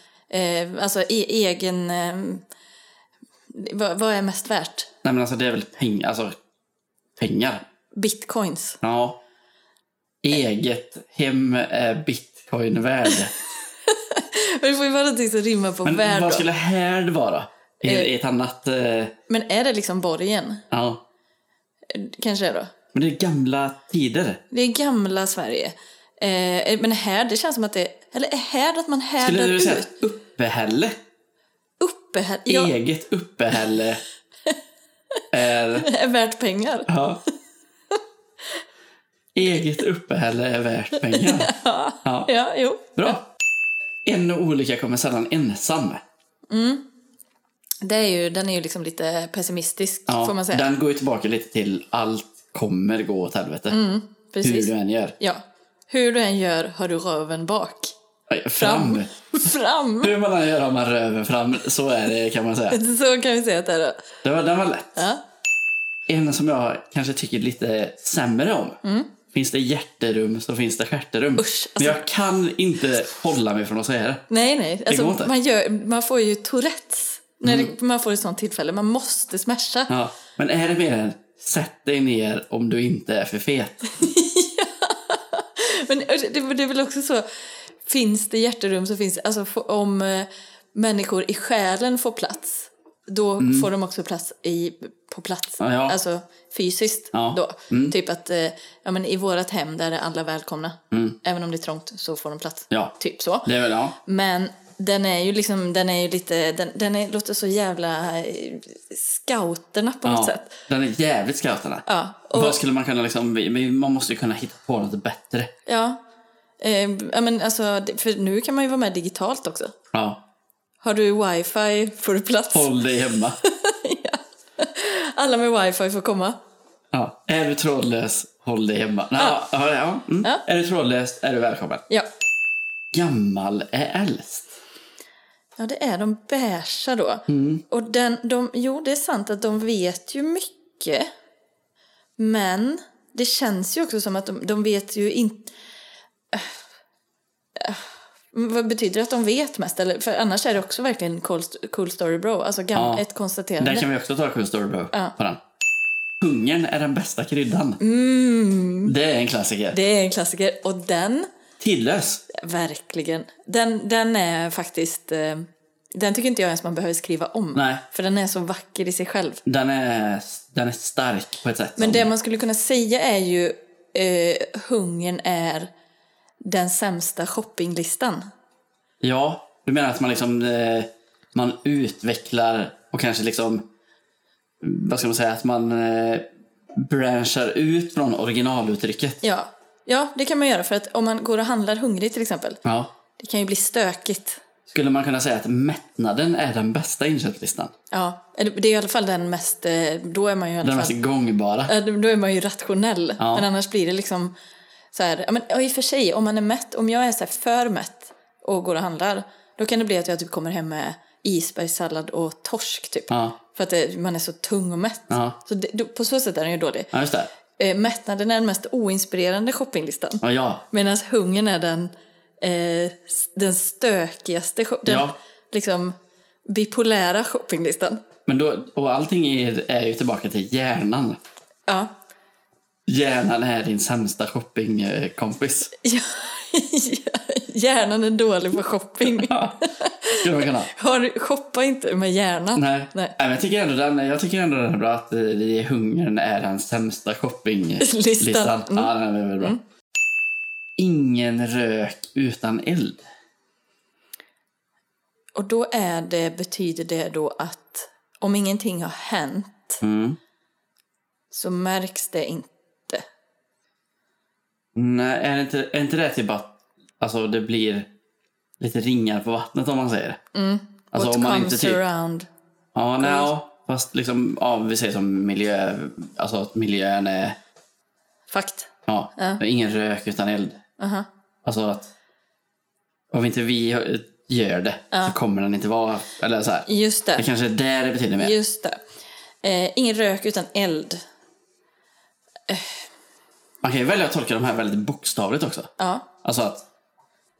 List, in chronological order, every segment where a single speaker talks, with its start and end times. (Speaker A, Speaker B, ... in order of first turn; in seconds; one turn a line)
Speaker A: 0.3-2.4
Speaker A: 3.5-4.9
Speaker B: 5.0-6.3
Speaker B: 7.2-7.6
Speaker A: 7.9-8.8
Speaker B: 8.8-9.2
Speaker B: 10.2-13.3
Speaker A: 13.8-16.4
Speaker B: 15.8-19.1
Speaker A: 19.3-20.6
Speaker B: 20.7-21.0
Speaker A: 21.9-22.7
Speaker B: 22.9-24.4
Speaker A: 24.5-29.9
Speaker B: 29.2-31.0
Speaker A: 31.8-32.7
Speaker B: 32.5-34.0
Speaker B: 35.3-35.9
Speaker A: 35.8-36.9
Speaker B: 36.9-37.2
Speaker B: 39.3-42.3
Speaker A: 41.0-43.2
Speaker B: 43.0-43.2
Speaker B: 44.0-46.0
Speaker A: 46.5-46.8
Speaker A: 47.8-50.6
Speaker B: 50.1-53.8
Speaker A: 53.7-57.9
Speaker B: 54.4-55.1
Speaker B: 58.3-59.1
Speaker A: 58.6-60.1
Speaker B: 60.0-62.8
Speaker A: 62.7-64.0
Speaker B: 64.2-65.0
Speaker A: 65.0-65.2
Speaker B: 66.1-68.8
Speaker A: 68.8-69.1
Speaker B: 69.3-74.2
Speaker A: 71.4-72.0
Speaker A: 74.3-79.9
Speaker B: 74.9-75.3
Speaker B: 77.4-77.7
Speaker B: 79.9-83.9
Speaker A: 83.9-87.2
Speaker A: 87.8-110.6
Speaker B: 93.4-93.7
Speaker B: 95.6-96.0
Speaker B: 97.1-97.9
Speaker B: 100.9-101.2
Speaker B: 102.7-104.0
Speaker B: 110.0-115.5
Speaker A: 111.8-112.6
Speaker A: 115.7-116.0
Speaker A: 116.6-119.7
Speaker B: 119.9-120.2
Speaker A: 120.8-122.8
Speaker B: 122.5-123.4
Speaker A: 123.4-126.4
Speaker B: 126.9-131.8
Speaker B: 132.9-134.6
Speaker A: 135.6-141.1
Speaker B: 137.3-137.6
Speaker A: 142.2-145.5
Speaker A: 147.6-153.8
Speaker B: 152.7-153.0
Speaker B: 153.6-155.4
Speaker B: 156.2-157.8
Speaker A: 157.8-158.9
Speaker B: 158.8-159.8
Speaker A: 159.7-161.3
Speaker B: 161.6-162.2
Speaker A: 162.3-169.4
Speaker B: 167.5-167.8
Speaker B: 169.4-172.1
Speaker A: 171.8-175.7
Speaker A: 176.4-178.3
Speaker B: 179.0-183.7
Speaker B: 184.6-189.2
Speaker A: 189.2-192.6
Speaker B: 192.6-192.9
Speaker A: 193.2-194.4
Speaker B: 194.7-197.7
Speaker A: 197.9-200.9
Speaker B: 200.6-201.7
Speaker A: 201.7-204.3
Speaker B: 203.2-203.5
Speaker A: 204.9-216.9
Speaker B: 213.1-213.4
Speaker B: 215.1-215.4
Speaker B: 216.9-217.3
Speaker A: 217.6-225.9
Speaker B: 220.2-220.6
Speaker B: 224.8-225.1
Speaker A: 226.5-228.0
Speaker B: 228.3-231.2
Speaker B: 232.9-235.7
Speaker A: 235.8-243.1
Speaker B: 239.1-239.6
Speaker B: 240.2-240.7
Speaker B: 242.5-249.6
Speaker A: 247.8-249.6
Speaker B: 250.8-253.1
Speaker A: 255.3-259.8
Speaker B: 259.8-260.2
Speaker A: 261.3-263.0
Speaker B: 264.7-267.9
Speaker B: 268.6-270.2
Speaker A: 270.3-272.3
Speaker B: 270.9-271.8
Speaker B: 272.7-277.4
Speaker A: 273.0-273.3
Speaker A: 278.3-279.4
Speaker B: 278.9-280.6
Speaker A: 280.8-281.1
Speaker B: 281.4-281.9
Speaker B: 283.1-288.3
Speaker A: 286.6-287.2
Speaker A: 288.2-288.8
Speaker A: 289.4-291.0
Speaker A: 292.5-292.7
Speaker B: 293.6-295.7
Speaker A: 295.8-296.1
Speaker B: 296.2-296.6